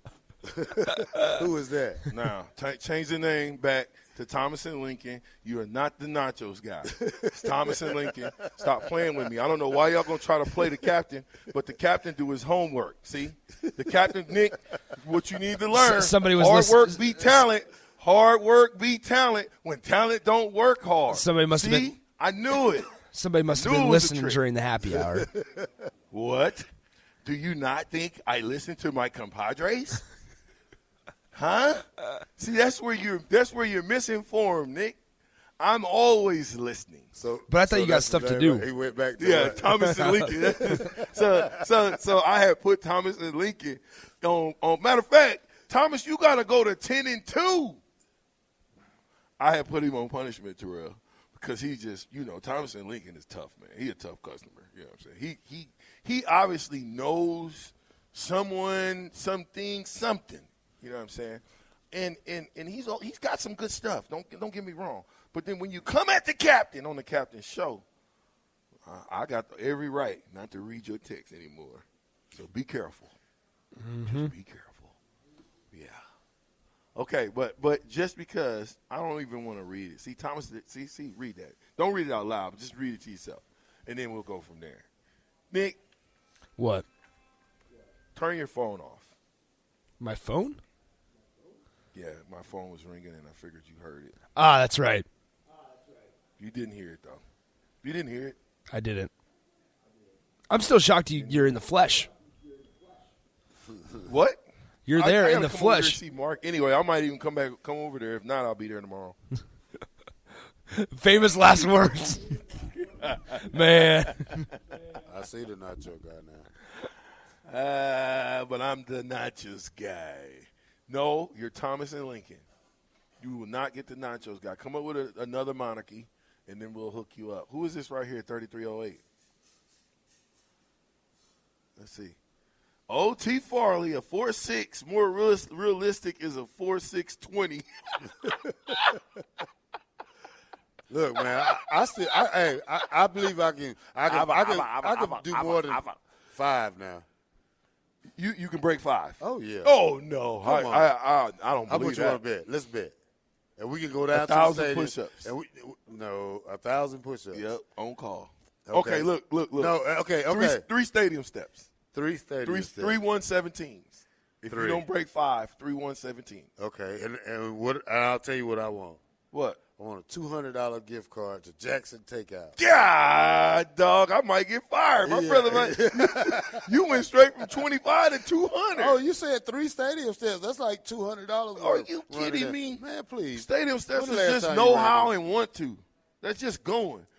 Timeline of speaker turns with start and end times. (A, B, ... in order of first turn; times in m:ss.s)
0:00.5-0:02.0 A
0:02.1-0:22.9 B
0:07.0-0:08.0 A
0:15.7-0:17.4 C
0:21.1-0:22.0 C
0:23.1-0:25.3 C
0:23.5-0:24.4 B
0:25.0-0:25.7 A
0:26.1-0:26.6 B
0:27.2-0:30.0 B
0:31.3-0:31.8 B
0:32.4-0:35.0 B
0:35.6-0:37.1 B
0:37.1-0:41.1 A
0:37.5-0:38.6 C
0:39.2-0:47.8 B
0:39.9-0:40.3 C
0:49.4-1:07.8 B
1:08.8-1:13.1 B
1:13.8-1:14.3 C
1:14.0-1:15.0 B
1:15.7-1:16.0 B
1:17.0-1:24.8 B
1:25.5-1:25.8 B
1:26.6-1:26.8 C
1:28.1-1:29.1 B
1:30.0-1:30.6 C
1:31.9-1:34.2 B
1:34.3-1:35.0 C
1:36.4-1:37.2 B
1:37.8-1:38.4 B
1:38.7-1:39.1 C
1:40.5-1:42.1 C
1:44.0-1:44.4 B
1:44.8-1:46.0 C
1:44.9-1:49.2 B
1:50.7-1:52.3 C
1:53.0-1:53.4 B
1:53.4-1:54.5 C
1:55.1-1:56.5 A
1:57.4-2:02.4 B
2:03.2-2:09.0 B
2:11.8-2:12.2 B
2:12.9-2:18.3 B
2:20.9-2:27.0 A
2:24.1-2:25.9 B
2:28.1-2:32.2 B
2:29.2-2:29.7 A
2:30.4-2:30.9 A
2:31.7-2:33.0 A
2:33.6-2:37.5 A
2:34.1-2:35.3 B
2:37.3-2:41.7 B
2:38.6-2:40.6 A
2:41.9-2:43.0 A
2:42.4-2:46.5 B
2:44.5-2:44.9 A
2:46.6-2:49.0 A
2:49.3-2:49.6 B
2:49.8-2:52.6 A
2:52.6-2:59.0 B
2:55.0-2:56.7 A
2:58.7-3:05.2 A
3:01.6-3:02.8 B
3:03.3-3:07.1 B